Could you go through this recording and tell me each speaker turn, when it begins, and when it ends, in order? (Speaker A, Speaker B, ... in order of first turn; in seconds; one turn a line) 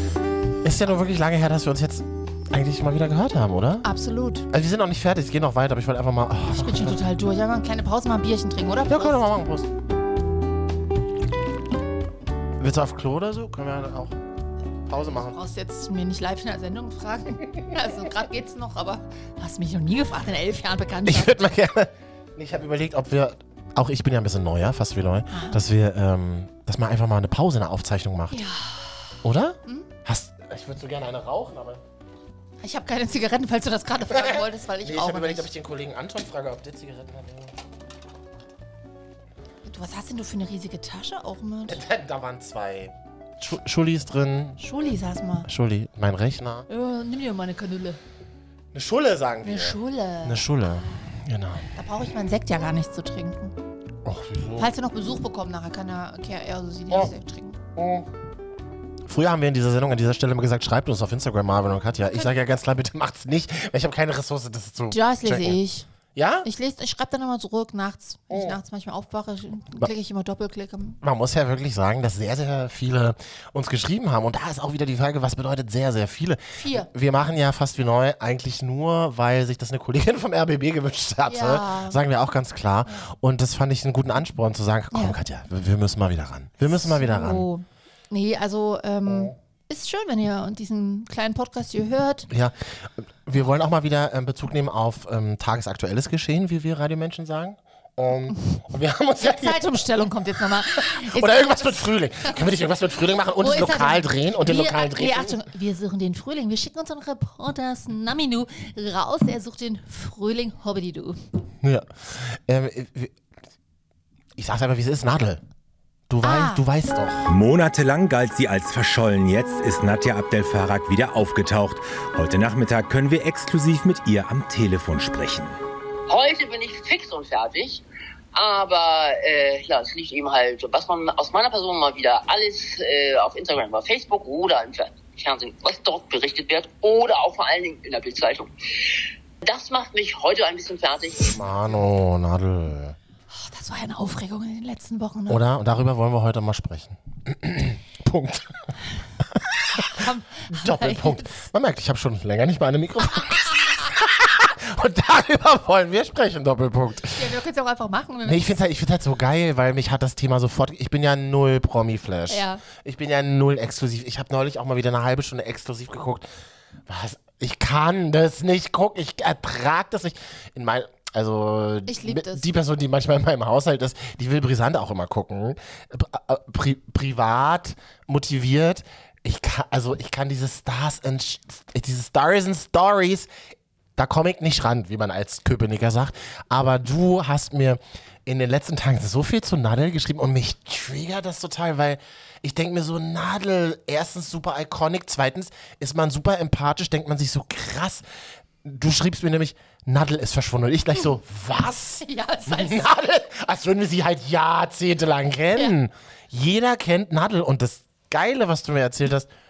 Speaker A: 0.6-3.9
Speaker B: 3.8-4.5
Speaker A: 4.5-7.0
Speaker B: 6.5-9.2
Speaker A: 8.9-9.7
Speaker A: 12.6-14.2
Speaker A: 14.9-15.4
Speaker B: 15.0-21.4
Speaker A: 21.1-28.4
Speaker B: 25.3-25.6
Speaker B: 28.3-29.1
Speaker A: 29.2-31.8
Speaker B: 32.6-35.5
Speaker A: 34.1-37.5
Speaker B: 39.6-41.8
Speaker A: 41.7-44.6
Speaker B: 44.6-45.5
Speaker A: 45.5-46.7
Speaker B: 46.7-48.0
Speaker A: 48.7-51.7
Speaker B: 49.4-51.1
Speaker B: 51.7-53.5
Speaker A: 54.0-54.7
Speaker B: 54.6-57.6
Speaker A: 57.8-58.1
Speaker A: 59.1-65.6
Speaker B: 64.9-65.9
Speaker A: 66.2-66.5
Speaker B: 66.4-71.0
Speaker A: 71.0-87.5
Speaker B: 76.6-76.9
Speaker B: 81.3-82.0
Speaker B: 84.9-85.2
Speaker B: 86.6-92.3
Speaker A: 92.3-99.7
Speaker B: 99.2-102.5
Speaker A: 100.7-105.4
Speaker B: 103.4-111.2
Speaker A: 111.6-113.2
Speaker A: 114.4-115.4
Speaker A: 116.1-117.3
Speaker B: 116.2-116.7
Speaker C: 117.3-125.6
Speaker D: 126.1-127.8
Speaker D: 128.3-138.5
Speaker D: 139.4-141.4
Speaker A: 141.3-143.0
Speaker B: 143.3-145.4
Speaker A: 145.3-148.7
Speaker A: 149.3-157.3
Speaker B: 149.8-151.3
Speaker B: 157.1-158.6
Speaker A: 158.2-166.3
Speaker B: 162.3-162.6
Speaker A: 166.9-183.3
Speaker B: 171.9-172.5
Speaker A: 184.0-198.0
Speaker A: 198.6-209.3
Speaker B: 202.0-202.9